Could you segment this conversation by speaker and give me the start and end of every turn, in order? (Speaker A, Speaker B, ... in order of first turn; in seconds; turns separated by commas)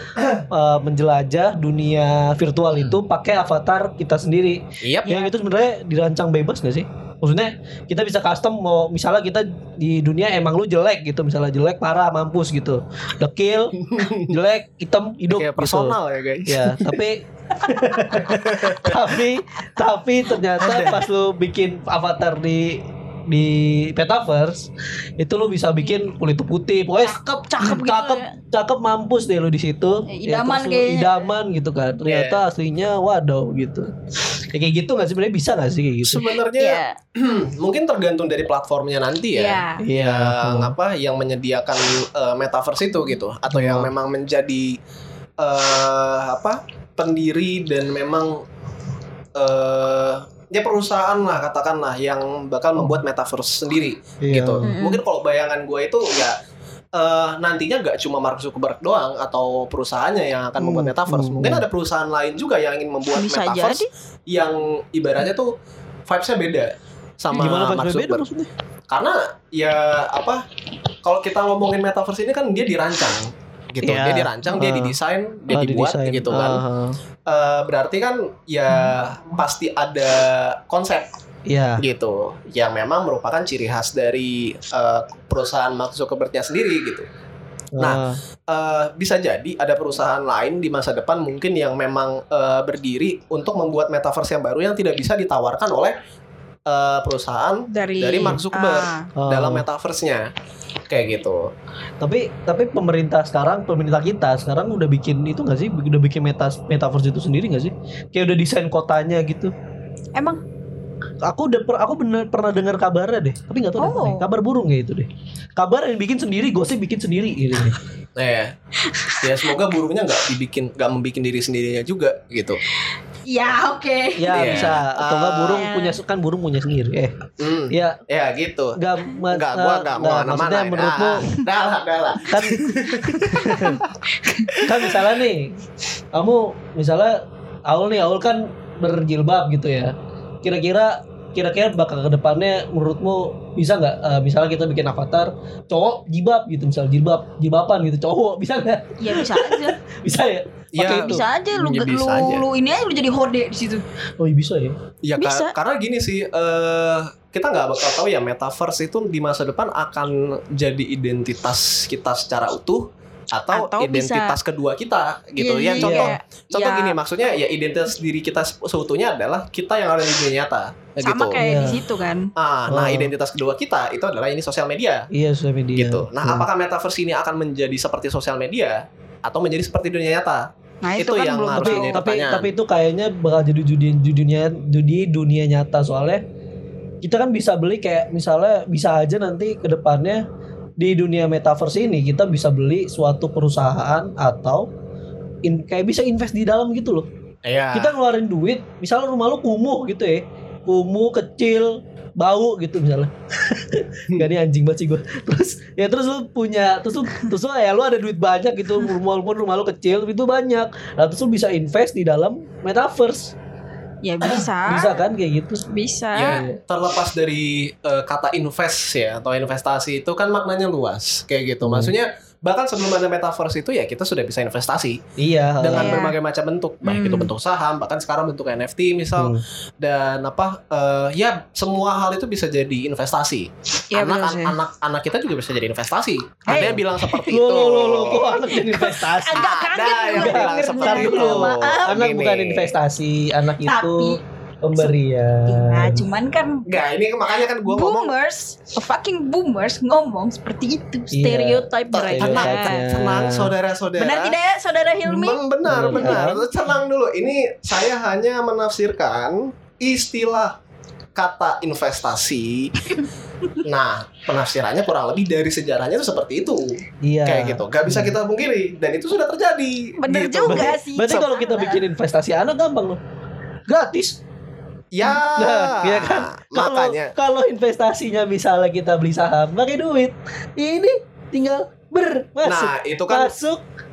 Speaker A: 0.2-0.4, Speaker B: 0.5-33.9, Speaker A: 4.8-5.1, Speaker C: 5.1-5.3, Speaker A: 13.8-14.3, Speaker A: 15.3-17.0, Speaker A: 18.1-19.1, Speaker A: 20.6-21.0, Speaker C: 27.1-28.3, Speaker C: 30.1-31.2, Speaker A: 32.1-32.4, Speaker B: 34.5-36.3, Speaker A: 36.0-44.8, Speaker C: 36.6-37.0, Speaker C: 39.4-39.9, Speaker B: 39.8-40.7, Speaker B: 43.5-43.9, Speaker A: 45.4-48.4, Speaker A: 49.4-56.4, Speaker B: 54.2-54.7, Speaker C: 54.6-55.0, Speaker A: 57.0-65.5, Speaker B: 60.6-61.7, Speaker C: 63.2-63.9, Speaker A: 66.1-68.2, Speaker B: 67.3-68.5, Speaker A: 68.9-70.4, Speaker A: 71.0-76.6, Speaker B: 73.8-75.0, Speaker B: 75.5-77.0, Speaker A: 77.3-81.1, Speaker B: 81.5-81.8, Speaker A: 81.8-87.1, Speaker B: 87.8-88.2, Speaker A: 87.8-96.0, Speaker A: 96.7-100.3, Speaker C: 97.7-99.1, Speaker B: 99.2-99.7, Speaker A: 100.9-101.5, Speaker B: 102.0-109.5, Speaker C: 110.2-110.4, Speaker B: 111.2-117.8, Speaker C: 113.8-114.3, Speaker A: 118.2-118.5, Speaker C: 118.8-119.5, Speaker A: 119.2-122.6, Speaker C: 123.3-124.7, Speaker B: 124.2-128.0, Speaker A: 124.3-125.7, Speaker C: 125.6-126.0, Speaker A: 127.4-128.8, Speaker B: 128.8-131.3, Speaker A: 129.3-133.8, Speaker B: 132.3-133.8, Speaker C: 133.3-134.9, Speaker B: 134.6-135.6, Speaker B: 136.1-151.2, Speaker C: 149.0-149.8, Speaker A: 150.7-152.4, Speaker C: 150.8-153.8, Speaker B: 154.2-154.8, Speaker A: 155.1-171.4, Speaker C: 155.2-155.5, Speaker C: 163.5-164.4, Speaker C: 165.4-167.0, Speaker B: 165.8-166.1, Speaker C: 171.0-172.3, Speaker B: 171.4-171.8, Speaker A: 172.4-175.1, Speaker B: 172.7-173.1, Speaker B: 175.1-176.5, Speaker A: 175.8-182.5, Speaker C: 180.8-182.0, Speaker B: 181.6-186.2, Speaker B: 187.0-190.2, Speaker B: 190.8-194.7, Speaker B: 195.4-197.1, Speaker A: 197.5-197.9, Speaker B: 197.7-213.3, Speaker C: 214.0-215.0, Speaker B: 214.2-215.7, Speaker C: 215.7-216.4, Speaker A: 216.1-225.0, Speaker B: 216.3-216.6, Speaker B: 221.6-221.9, Speaker B: 225.2-226.0, Speaker A: 225.6-238.4, Speaker C: 225.7-226.2, Speaker C: 226.8-227.3, Speaker B: 229.2-229.4, Speaker C: 233.9-234.6, Speaker C: 236.5-237.2, Speaker B: 236.5-239.5, Speaker C: 238.1-242.0, Speaker A: 239.4-242.7, Speaker B: 240.1-246.1, Speaker C: 243.6-244.2, Speaker C: 245.4-246.7, Speaker A: 246.7-248.1, Speaker C: 247.6-252.9, Speaker B: 251.1-253.5, Speaker A: 251.9-254.4, Speaker C: 254.0-255.4, Speaker A: 255.1-260.6, Speaker B: 255.7-256.4, Speaker C: 255.9-256.3, Speaker A: 261.2-262.9, Speaker A: 263.6-266.7, Speaker B: 267.0-268.1, Speaker A: 267.2-270.8, Speaker C: 270.0-271.8, Speaker B: 270.5-273.0, Speaker B: 273.7-274.2, Speaker A: 274.9-277.1, Speaker B: 275.2-283.6, Speaker A: 282.4-283.3